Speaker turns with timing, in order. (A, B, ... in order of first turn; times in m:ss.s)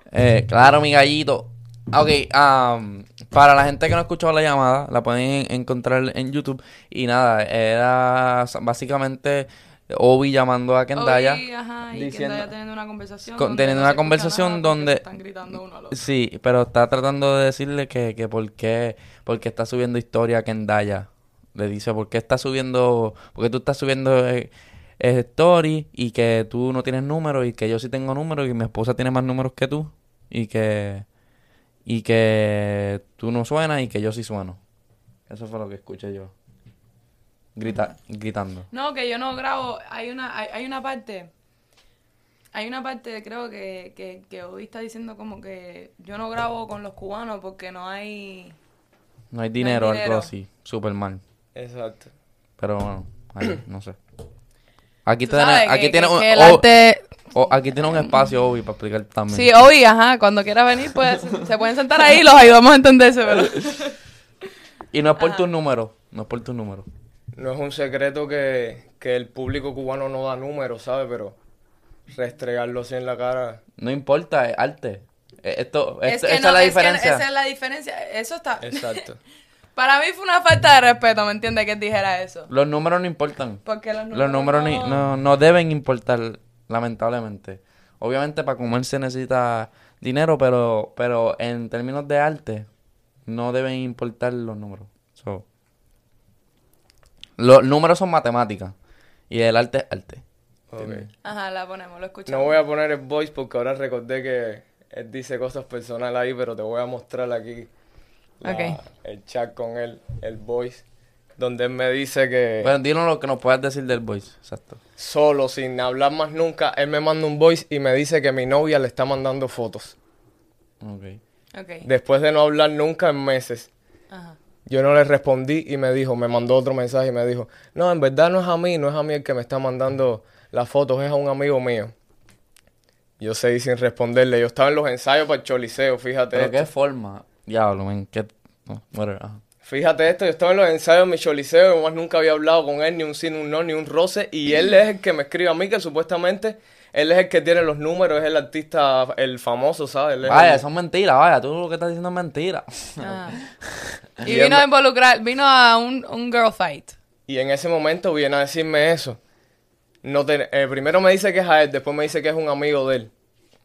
0:00.1-0:12.5 A
0:11.0-0:16.0 B
0:13.4-0:15.0 A
0:15.9-0:31.1 A
0:31.9-0:34.6 A
0:35.3-0:36.3 A
0:37.6-0:38.7 A
0:38.7-0:41.3 B
0:42.5-0:48.6 B
0:49.3-0:51.2 A
0:49.6-0:50.3 B
0:51.6-0:52.1 C
0:52.6-0:54.0 A
0:55.0-0:56.7 A
0:55.3-0:57.2 B
0:57.3-0:59.5 A
0:59.3-1:04.0 B
1:04.9-1:06.9 A
1:05.2-1:05.4 B
1:07.4-1:11.4 C
1:12.1-1:13.6 C
1:13.8-1:17.2 A
1:16.0-1:19.0 B
1:18.6-1:19.2 C
1:19.8-1:22.5 B
1:22.5-1:23.6 A
1:23.6-1:25.1 B
1:24.1-1:32.7 A
1:33.3-1:35.4 A
1:37.4-1:38.7 A
1:39.3-1:40.2 A
1:40.7-1:41.1 C
1:40.8-1:41.1 A
1:41.2-1:42.6 B
1:42.3-1:47.7 C
1:48.4-1:50.8 C
1:48.4-1:48.8 B
1:51.4-1:52.7 C
1:52.6-1:54.8 A
1:55.0-2:00.0 C
2:00.8-2:01.2 A
2:01.5-2:01.9 B
2:01.8-2:03.7 C
2:04.1-2:04.4 B
2:04.7-2:11.9 C
2:13.2-2:16.6 C
2:16.3-2:19.4 A
2:19.7-2:30.6 C
2:30.2-2:34.6 A
2:33.0-2:33.4 B
2:34.2-2:37.0 B
2:34.3-2:34.6 C
2:37.3-2:39.2 C
2:40.0-2:43.1 C